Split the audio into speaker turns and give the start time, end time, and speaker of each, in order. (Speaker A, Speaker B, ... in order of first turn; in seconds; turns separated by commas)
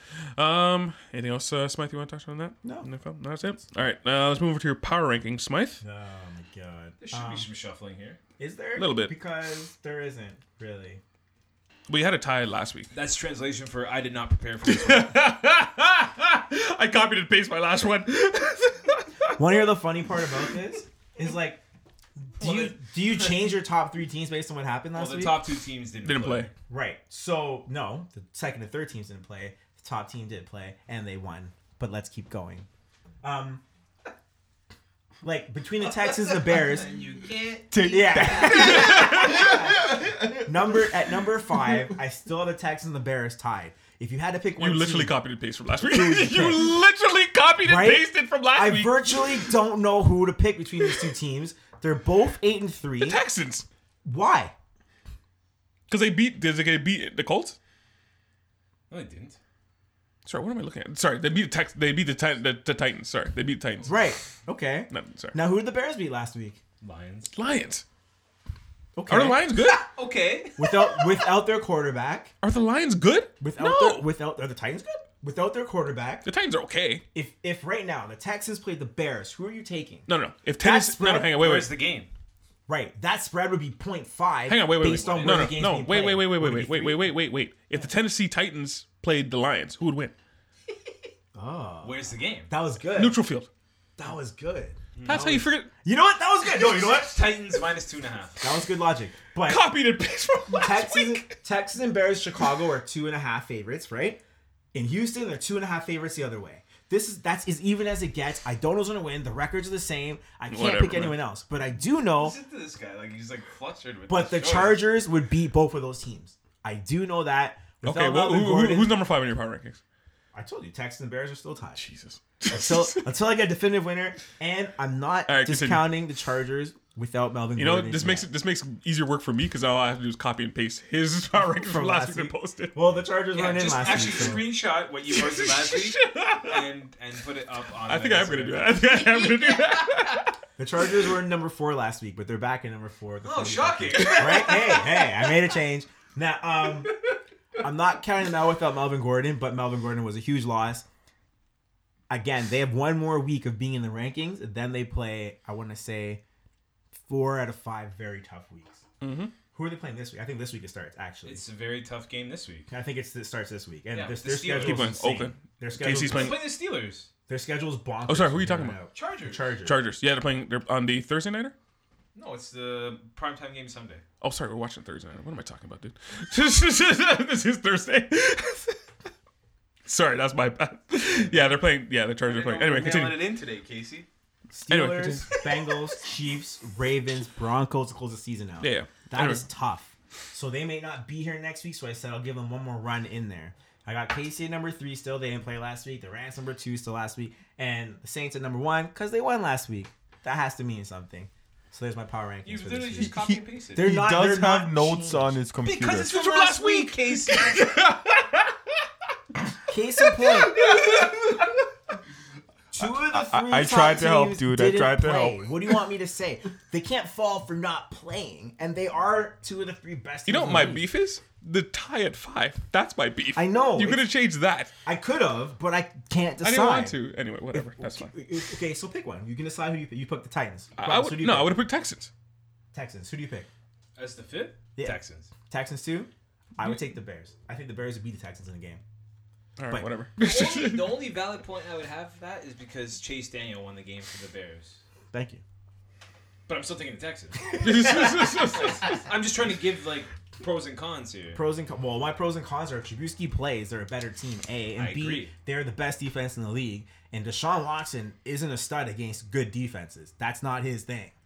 Speaker A: 0.3-5.8, Speaker B: 2.6-2.9, Speaker B: 5.8-7.5, Speaker C: 7.0-8.2, Speaker B: 8.4-11.0, Speaker A: 8.8-9.1, Speaker A: 11.9-12.9, Speaker C: 12.9-15.2, Speaker A: 14.7-19.4, Speaker B: 19.4-21.6, Speaker B: 22.4-25.4, Speaker C: 22.4-23.3, Speaker C: 24.9-26.5, Speaker A: 26.0-26.5, Speaker B: 26.7-32.7, Speaker B: 33.2-33.6, Speaker B: 35.2-36.9, Speaker C: 36.0-40.2, Speaker B: 37.8-45.2, Speaker A: 38.4-39.5, Speaker A: 44.6-49.4, Speaker B: 45.8-46.8, Speaker B: 47.6-53.2, Speaker A: 53.0-53.6, Speaker B: 54.0-54.5, Speaker A: 55.9-57.6, Speaker C: 58.9-59.4, Speaker A: 60.2-64.0, Speaker B: 63.9-66.6, Speaker A: 64.9-65.3, Speaker C: 66.8-67.3, Speaker A: 67.3-67.8, Speaker B: 68.9-69.7, Speaker A: 69.1-69.9, Speaker C: 69.6-71.1, Speaker B: 70.6-72.3, Speaker A: 72.4-74.1, Speaker B: 73.4-76.3, Speaker A: 76.2-77.0, Speaker B: 77.1-81.6, Speaker A: 80.1-81.7, Speaker C: 81.4-82.1, Speaker B: 82.7-87.1, Speaker A: 84.5-90.1, Speaker C: 84.8-85.6, Speaker B: 91.3-93.2, Speaker C: 91.8-92.5, Speaker A: 92.9-93.5, Speaker B: 94.0-97.2, Speaker C: 95.0-95.2, Speaker A: 95.0-95.7, Speaker C: 96.7-98.4, Speaker B: 98.4-99.6, Speaker A: 99.4-101.3, Speaker B: 100.5-104.2, Speaker B: 104.7-112.3, Speaker A: 110.5-111.2, Speaker C: 112.2-114.8, Speaker B: 114.1-118.9, Speaker A: 117.8-119.8, Speaker B: 120.3-121.8, Speaker A: 121.8-123.1, Speaker B: 122.5-128.3, Speaker A: 125.3-125.9, Speaker A: 127.6-133.1, Speaker B: 131.6-134.5, Speaker C: 133.3-139.4, Speaker A: 135.1-136.7, Speaker A: 137.8-140.3, Speaker B: 140.6-147.0, Speaker C: 143.2-145.1, Speaker B: 147.6-150.8, Speaker B: 152.1-156.2, Speaker B: 157.0-158.8, Speaker A: 159.0-159.3, Speaker B: 159.5-161.4, Speaker C: 161.2-162.7, Speaker B: 162.7-166.5, Speaker C: 163.9-164.9, Speaker A: 164.5-166.4, Speaker C: 165.9-167.1, Speaker B: 167.3-169.8, Speaker A: 168.1-168.8, Speaker C: 168.9-169.6, Speaker A: 169.6-171.5, Speaker C: 172.1-174.0, Speaker A: 174.2-178.8, Speaker A: 179.8-183.2, Speaker C: 181.2-181.6, Speaker C: 182.2-184.1, Speaker B: 184.5-203.2, Speaker A: 184.7-185.3, Speaker A: 188.6-189.4, Speaker C: 202.4-203.9, Speaker D: 203.0-206.1, Speaker B: 203.7-205.4, Speaker C: 205.6-207.8, Speaker A: 206.0-208.2, Speaker B: 209.7-210.7, Speaker B: 212.7-220.9, Speaker D: 212.8-215.7, Speaker A: 220.3-224.7, Speaker B: 223.3-224.1, Speaker B: 224.8-227.0, Speaker A: 226.4-228.1, Speaker B: 227.5-231.6, Speaker A: 230.8-232.1, Speaker B: 232.7-233.5, Speaker C: 233.9-235.3, Speaker B: 234.8-238.8, Speaker A: 239.6-240.8, Speaker C: 240.2-244.8, Speaker B: 245.1-245.4, Speaker C: 246.5-251.4, Speaker B: 247.5-248.3, Speaker A: 247.6-248.9, Speaker B: 251.3-261.1, Speaker C: 254.8-255.3